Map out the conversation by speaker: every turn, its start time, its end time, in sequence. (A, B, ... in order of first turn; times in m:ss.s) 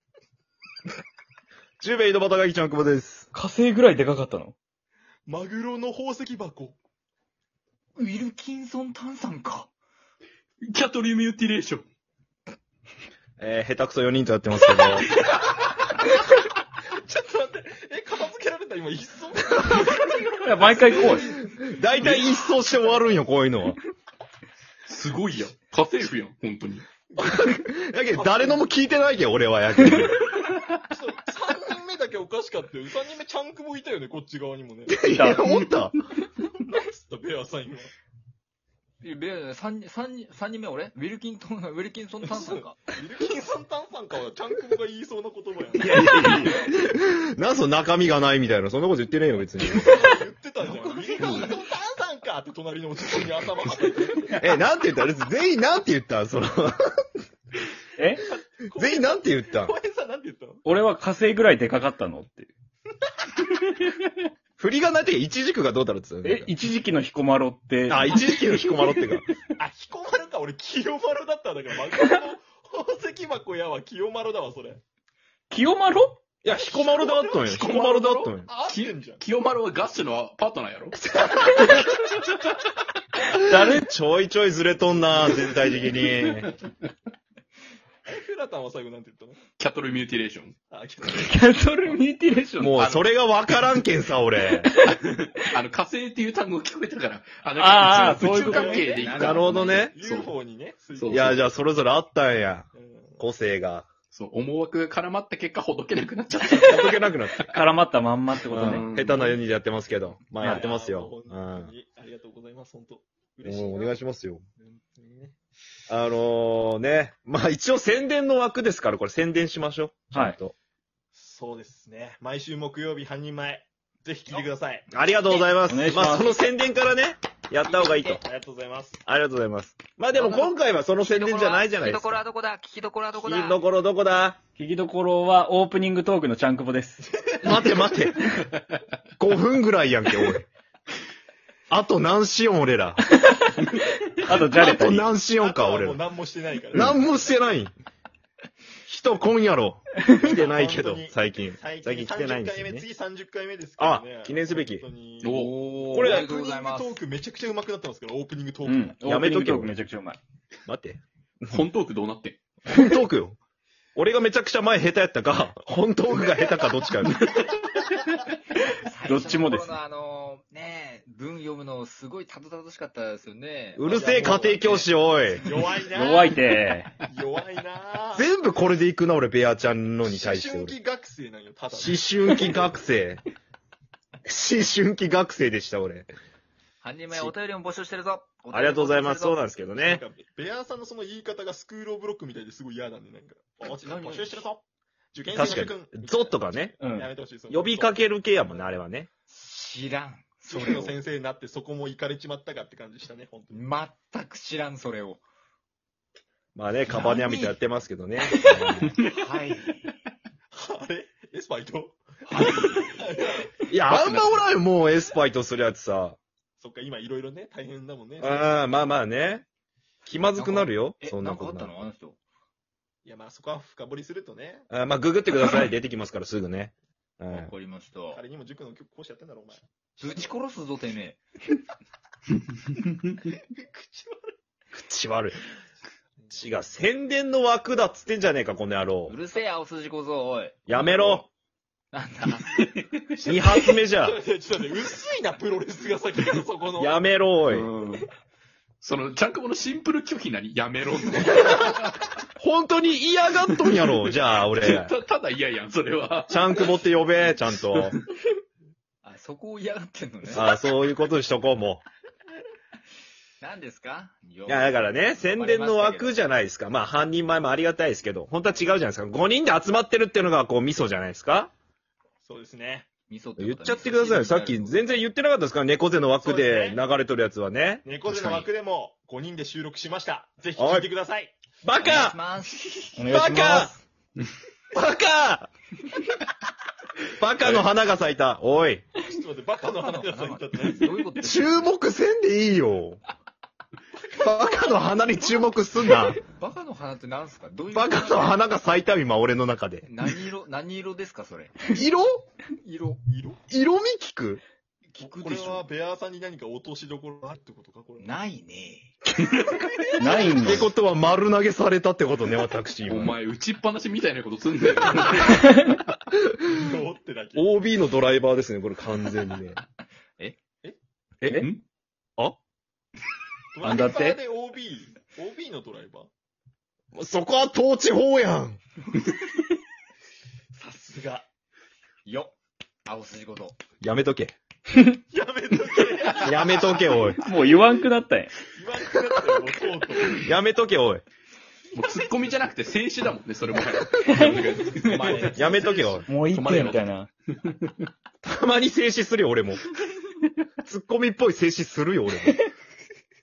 0:01.8-0:03.3 A
0:03.3-0:04.5 B
0:05.3-0:06.8 C
0:08.0-0:09.7 D
0:10.6-0:11.8 E
0:13.4-0:15.1 A
0:17.0-0:21.3 C
0:20.4-0:21.3 B
0:21.1-0:23.8 A
0:22.0-0:22.3 E
0:24.9-0:26.8 E
0:27.1-0:28.7 C
0:27.2-0:30.2 A
0:30.9-0:35.0 C
0:34.9-0:36.0 A
0:35.0-0:35.5 B
0:36.6-0:37.9 C
0:39.0-0:42.8 D
0:42.2-0:46.6 C
0:45.8-0:49.9 A
0:49.7-0:54.4 C
0:50.8-0:51.4 D
0:54.4-0:57.1 A
0:58.0-0:58.2 B
0:58.7-1:00.6 C
0:58.7-0:59.7 A
1:00.6-1:02.5 B
1:04.6-1:06.5 A
1:06.2-1:08.8 B
1:07.9-1:09.2 A
1:09.6-1:14.8 C
1:15.5-1:16.2 B
1:16.4-1:18.5 A
1:16.5-1:17.6 C
1:17.4-1:21.0 E
1:18.4-1:19.2 C
1:21.1-1:21.7 A
1:23.3-1:26.5 A
1:23.4-1:23.9 B
1:28.0-1:29.4 C
1:29.6-1:30.5 E
1:30.7-1:32.0 C
1:31.1-1:32.8 B
1:32.6-1:34.7 A
1:32.8-1:33.1 E
1:34.7-1:34.9 B
1:34.9-1:40.3 E
1:37.6-1:38.9 B
1:38.4-1:41.5 C
1:38.9-1:39.9 D
1:39.0-1:40.0 A
1:41.0-1:41.4 E
1:41.1-1:43.9 A
1:42.7-1:43.2 C
1:44.1-1:47.4 E
1:46.6-1:47.4 A
1:47.5-1:48.9 B
1:48.5-1:51.7 A
1:48.6-1:49.4 E
1:50.4-1:54.0 C
1:53.4-1:54.4 A
1:54.6-1:55.3 C
1:55.9-2:00.5 A
2:00.1-2:00.4 B
2:01.1-2:04.9 C
2:04.9-2:08.2 A
2:05.2-2:05.6 D
2:05.6-2:06.4 B
2:07.6-2:08.2 D
2:08.2-2:09.0 C
2:09.1-2:12.2 A
2:10.1-2:13.6 D
2:13.2-2:14.4 A
2:14.5-2:17.1 B
2:17.2-2:17.7 C
2:17.4-2:18.2 A
2:19.2-2:20.5 A
2:21.7-2:23.0 A
2:24.2-2:25.1 B
2:24.4-2:26.0 A
2:25.2-2:27.0 C
2:26.7-2:27.7 A
2:28.8-2:32.8 A
2:30.2-2:39.0 C
2:33.8-2:34.8 A
2:35.2-2:35.6 E
2:35.2-2:37.0 D
2:35.9-2:36.3 A
2:38.6-2:40.2 B
2:39.0-2:39.7 A
2:40.7-2:41.6 A
2:41.5-2:42.4 E
2:42.7-2:43.4 A
2:44.0-2:47.4 A
2:48.7-2:55.4 D
2:49.1-2:49.8 B
2:53.8-2:55.4 A
2:53.8-2:54.5 C
2:55.4-2:56.4 C
2:55.9-2:56.9 B
2:57.0-2:58.2 C
2:58.1-3:00.8 A
3:00.0-3:02.6 C
3:01.7-3:03.2 A
3:04.2-3:06.1 A
3:06.8-3:09.4 D
3:08.5-3:10.0 A
3:09.8-3:14.6 C
3:13.7-3:14.4 D
3:15.1-3:18.0 C
3:15.3-3:16.7 A
3:16.8-3:17.1 B
3:17.5-3:19.1 A
3:19.3-3:21.0 D
3:20.4-3:23.6 C
3:23.5-3:25.2 D
3:26.5-3:29.0 A
3:26.9-3:27.6 D
3:28.3-3:29.9 D
3:30.5-3:33.5 C
3:32.3-3:32.8 D
3:33.7-3:36.2 A
3:33.9-3:34.5 D
3:36.6-3:38.7 C
3:38.2-3:39.4 A
3:40.1-3:41.7 A
3:40.3-3:42.2 D
3:43.0-3:44.7 C
3:44.7-3:47.5 A
3:47.3-3:48.2 D
3:48.1-3:50.3 C
3:50.0-3:51.2 D
3:53.4-3:54.3 C
3:54.7-3:55.4 A
3:56.3-3:59.2 A
3:59.1-4:01.2 D
4:00.7-4:01.3 A
4:01.9-4:02.9 D
4:03.2-4:03.7 E
4:03.2-4:04.2 A
4:04.0-4:07.0 C
4:06.8-4:07.7 A
4:07.5-4:08.1 E
4:08.8-4:12.0 E
4:12.4-4:14.9 A
4:13.5-4:14.0 E
4:14.6-4:16.8 E
4:16.3-4:18.0 A
4:17.7-4:18.0 E
4:19.0-4:20.5 D
4:20.3-4:21.8 A
4:23.4-4:26.2 D
4:24.5-4:31.5 A
4:32.2-4:32.9 C
4:33.1-4:34.9 D
4:33.4-4:37.9 A
4:36.2-4:36.8 C
4:37.8-4:41.4 C
4:38.1-4:38.5 D
4:40.6-4:40.9 A
4:41.6-4:42.2 A
4:41.8-4:43.0 D
4:43.0-4:43.8 B
4:43.0-4:43.7 A
4:44.7-4:45.5 A
4:47.1-4:48.9 A
4:49.1-4:51.1 C
4:49.7-4:51.7 D
4:51.2-4:53.0 A
4:54.0-4:54.9 C
4:54.2-4:56.2 A
4:56.2-4:58.5 D
4:57.7-4:59.9 A
4:59.9-5:01.6 D
5:01.7-5:02.2 A
5:02.6-5:03.0 D
5:03.0-5:03.4 C
5:03.5-5:04.4 A
5:04.9-5:05.6 D
5:05.0-5:08.1 C
5:08.0-5:08.9 D
5:09.4-5:10.3 C
5:10.0-5:10.7 B
5:10.2-5:13.1 A
5:12.8-5:15.4 E
5:15.4-5:15.8 B
5:16.1-5:16.6 A
5:16.6-5:17.5 C
5:17.4-5:19.6 A
5:21.2-5:21.6 E
5:23.5-5:26.1 C
5:23.6-5:24.2 B
5:26.9-5:28.6 A
5:30.5-5:31.2 C
5:32.1-5:33.6 D
5:33.8-5:34.3 A
5:35.1-5:37.1 C
5:36.2-5:37.2 A
5:37.2-5:38.3 B
5:38.5-5:40.2 C
5:40.2-5:41.0 A
5:41.7-5:45.4 E
5:44.0-5:44.4 B
5:44.8-5:46.0 C
5:45.1-5:46.0 A
5:46.1-5:47.1 B
5:46.3-5:47.9 E
5:48.2-5:49.6 A
5:50.6-5:52.4 A